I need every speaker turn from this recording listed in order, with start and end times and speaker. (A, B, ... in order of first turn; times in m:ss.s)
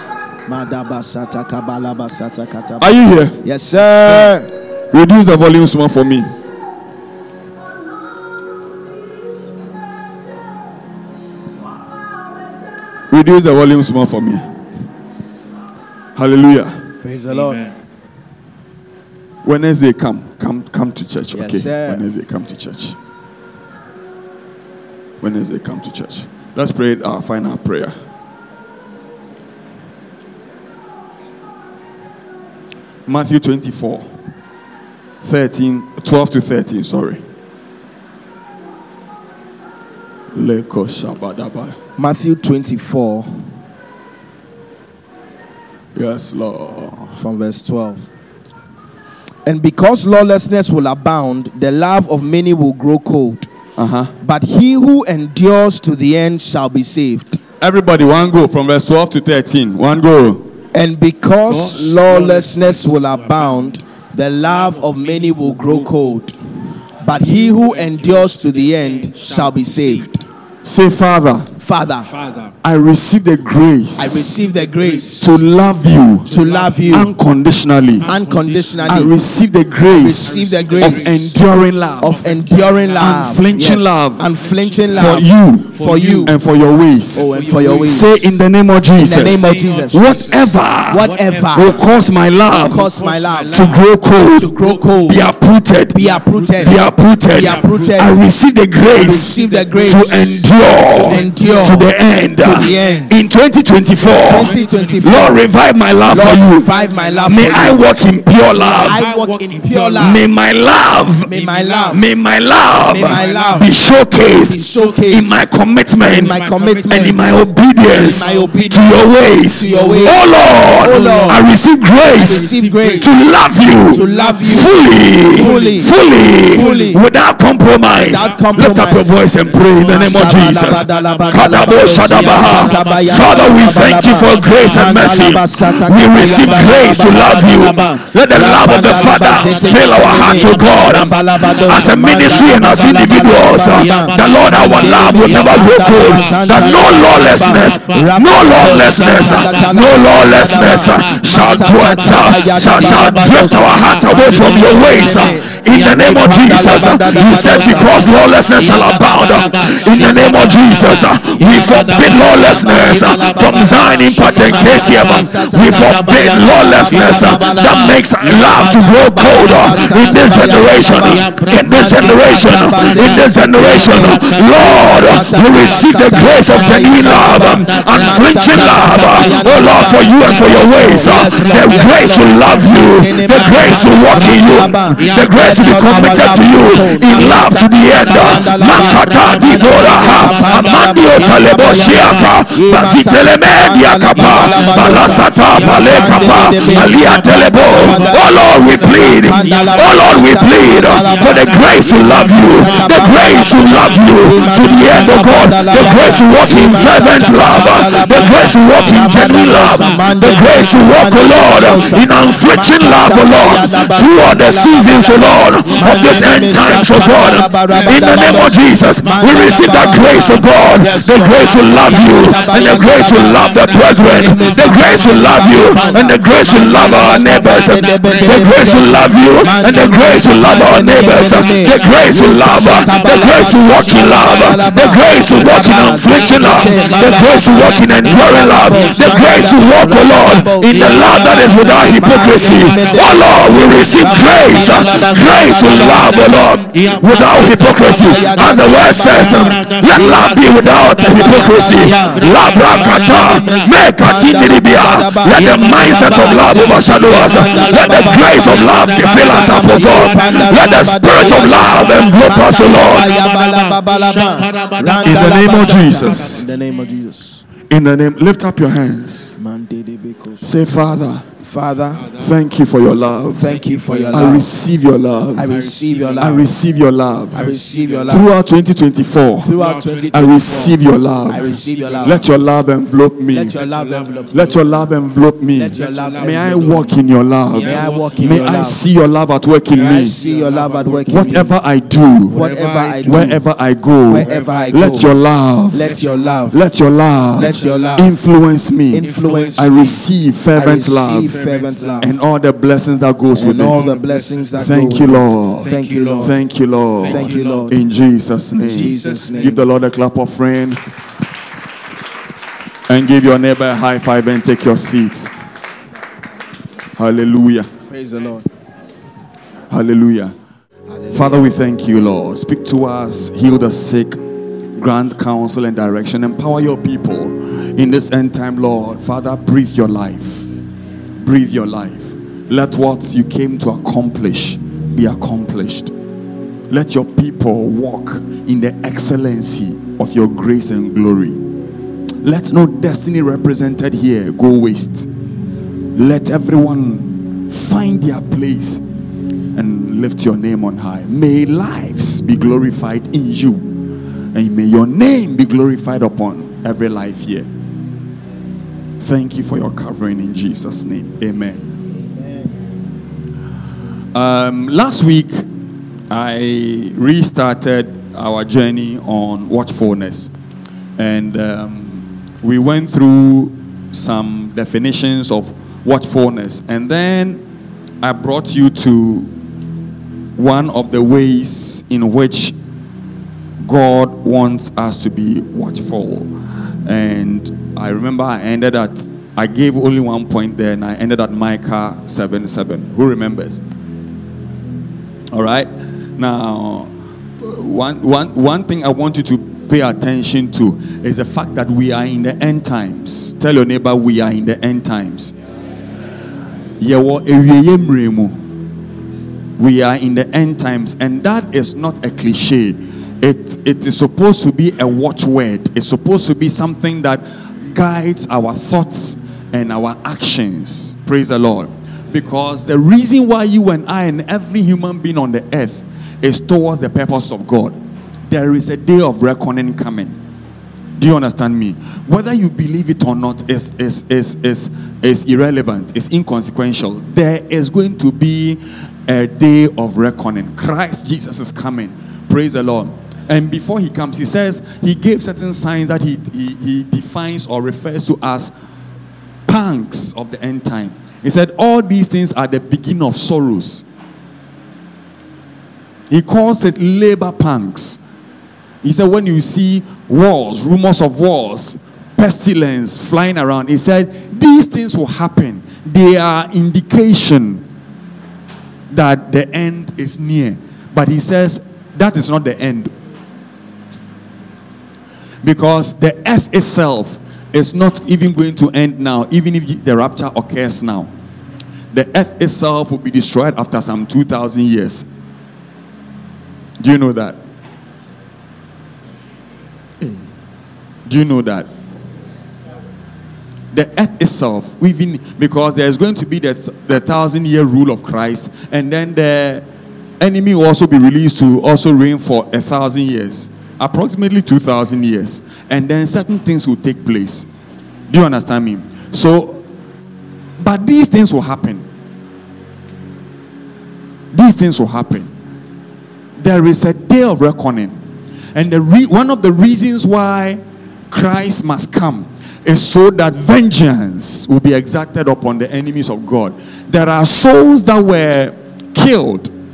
0:00.5-0:04.5 A
0:02.8-0:03.4 B
0:04.9-0:06.3 B
0:13.1-0:14.5 B
0:16.2-0:16.8 B
0:17.0-0:17.7 A
0:17.3-0:17.8 C
0:19.4-0:23.0 B
0:21.3-0:22.0 A
0:25.2-0:28.0 B
0:33.1-0:34.1 B
0:35.2-0:37.2 B
0:40.3-0:41.8 B
0:42.0-0:43.5 A
0:46.0-0:47.2 B
0:47.1-0:48.1 A
0:49.4-0:53.5 A
0:53.8-0:54.1 B
0:54.2-0:57.4 A
0:57.6-1:00.5 B
1:00.7-1:06.4 A
1:01.5-1:03.8 C
1:04.4-1:06.2 C
1:07.0-1:10.2 A
1:07.1-1:10.2 C
1:10.6-1:11.5 B
1:11.6-1:12.1 A
1:12.1-1:12.5 C
1:12.6-1:14.3 B
1:14.0-1:15.3 A
1:14.0-1:15.3 C
1:15.2-1:16.3 B
1:16.1-1:17.1 C
1:16.3-1:17.1 A
1:16.9-1:18.1 B
1:18.0-1:19.2 C
1:18.1-1:19.1 A
1:18.9-1:22.2 B
1:19.8-1:23.6 C
1:19.8-1:21.2 A
1:22.0-1:26.4 A
1:23.0-1:24.2 B
1:24.2-1:26.4 C
1:24.9-1:32.8 B
1:27.1-1:28.4 C
1:27.2-1:28.2 A
1:29.0-1:30.3 A
1:29.1-1:35.2 C
1:30.9-1:31.8 A
1:32.6-1:33.7 A
1:33.5-1:34.5 B
1:34.4-1:35.2 A
1:35.1-1:36.0 B
1:35.9-1:38.2 A
1:36.0-1:38.2 C
1:36.6-1:39.3 B
1:38.9-1:43.1 A
1:38.9-1:41.9 C
1:39.9-1:46.7 B
1:42.4-1:43.1 C
1:44.2-1:45.4 A
1:44.3-1:45.4 C
1:46.1-1:47.8 A
1:46.6-1:47.8 C
1:47.3-1:49.0 B
1:48.5-1:50.2 C
1:48.6-1:50.2 A
1:50.0-1:51.3 B
1:51.2-1:52.0 A
1:51.3-1:52.0 C
1:51.9-1:56.4 B
1:52.9-1:53.7 C
1:52.9-1:53.7 A
1:54.3-1:55.4 A
1:54.5-1:55.3 C
1:56.0-2:01.4 A
1:56.1-2:01.6 C
1:56.9-4:23.2 B
2:02.1-2:03.1 A
2:02.1-2:03.2 C
2:03.7-2:07.0 C
2:03.8-2:07.0 A
2:08.0-4:27.4 A
2:08.2-2:15.4 C
2:16.1-2:38.0 C
2:39.6-2:43.8 C
2:44.4-2:45.5 C
2:46.8-2:47.6 C
2:49.9-2:50.3 C
2:51.1-2:51.6 C
2:52.3-2:53.1 C
2:53.7-2:55.9 C
2:56.4-3:01.8 C
3:03.2-3:07.4 C
3:08.1-3:11.4 C
3:12.0-3:12.3 C
3:14.1-3:30.7 C
3:31.6-3:32.0 C
3:35.6-3:38.6 C
3:39.1-3:59.7 C
4:00.6-4:10.2 C
4:11.0-4:13.7 C
4:15.4-4:26.6 C
4:25.0-4:26.4 B
4:27.7-4:29.3 B
4:29.4-4:30.5 A
4:30.4-4:31.3 B
4:31.4-4:32.1 A
4:32.0-4:32.4 C
4:32.2-4:33.5 B
4:33.3-4:34.5 A
4:33.4-4:34.4 C
4:34.1-4:35.6 B
4:35.4-4:36.5 A
4:35.4-4:36.4 C
4:36.2-4:37.4 B
4:37.3-4:38.3 C
4:37.3-4:38.3 A
4:38.1-4:39.5 B
4:39.4-4:42.2 A
4:39.5-4:40.8 C
4:40.1-4:43.6 B
4:41.3-4:42.4 C
4:43.3-4:44.6 A
4:43.5-4:44.6 C
4:44.3-4:50.2 B
4:45.6-4:46.9 A
4:45.7-4:46.8 C
4:47.5-4:48.6 C
4:47.6-4:48.8 A
4:49.7-4:51.6 C
4:49.8-4:51.6 A
4:51.1-4:52.4 B
4:52.3-4:53.4 C
4:52.3-4:53.4 A
4:53.0-4:55.9 B
4:54.1-4:55.1 A
4:54.2-4:55.2 C
4:55.7-4:56.6 A
4:55.9-4:56.6 C
4:56.5-5:01.4 B
4:57.3-4:58.1 C
4:57.4-4:58.2 A
4:58.9-5:00.0 A
4:59.0-4:59.9 C
5:00.5-5:02.1 A
5:01.0-5:02.2 C
5:02.0-5:03.9 B
5:03.3-5:06.3 A
5:03.6-5:06.4 C
5:04.6-5:10.8 B
5:07.0-5:07.8 C
5:07.0-5:07.8 A
5:08.6-5:09.6 C
5:08.6-5:09.6 A
5:12.9-5:15.3 B
5:17.0-5:17.7 B
5:17.9-5:18.5 A
5:19.7-5:20.4 B
5:20.9-5:21.5 A
5:21.1-5:24.2 B
5:24.8-5:30.5 B
5:31.2-5:35.9 B
5:36.7-5:41.4 B
5:42.2-5:45.1 B
5:46.0-5:48.8 B
5:49.5-5:53.7 B
5:54.3-5:57.5 B
5:59.0-6:01.7 B
6:02.0-6:02.5 A
6:04.1-6:05.5 B
6:06.1-6:10.3 B
6:11.0-6:17.4 B
6:18.0-6:19.3 B
6:20.4-6:22.6 B
6:23.6-6:26.3 B
6:26.8-6:33.6 B
6:35.3-6:45.3 B
6:46.8-6:48.4 B
6:49.6-7:07.8 B
7:08.3-7:10.2 B
7:11.0-7:28.5 B
7:29.5-7:33.8 B
7:36.1-7:38.0 B
7:38.8-7:47.6 B
7:48.9-7:52.9 B
7:55.4-8:01.1 B
8:01.9-8:05.1 B
8:06.8-8:07.4 B
8:10.0-8:10.3 B
8:11.1-8:11.7 B
8:13.7-8:19.6 B
8:20.2-8:27.5 B
8:28.1-8:29.6 B
8:30.6-8:31.8 B
8:34.3-8:35.3 B
8:36.4-8:38.0 B
8:38.5-8:49.5 B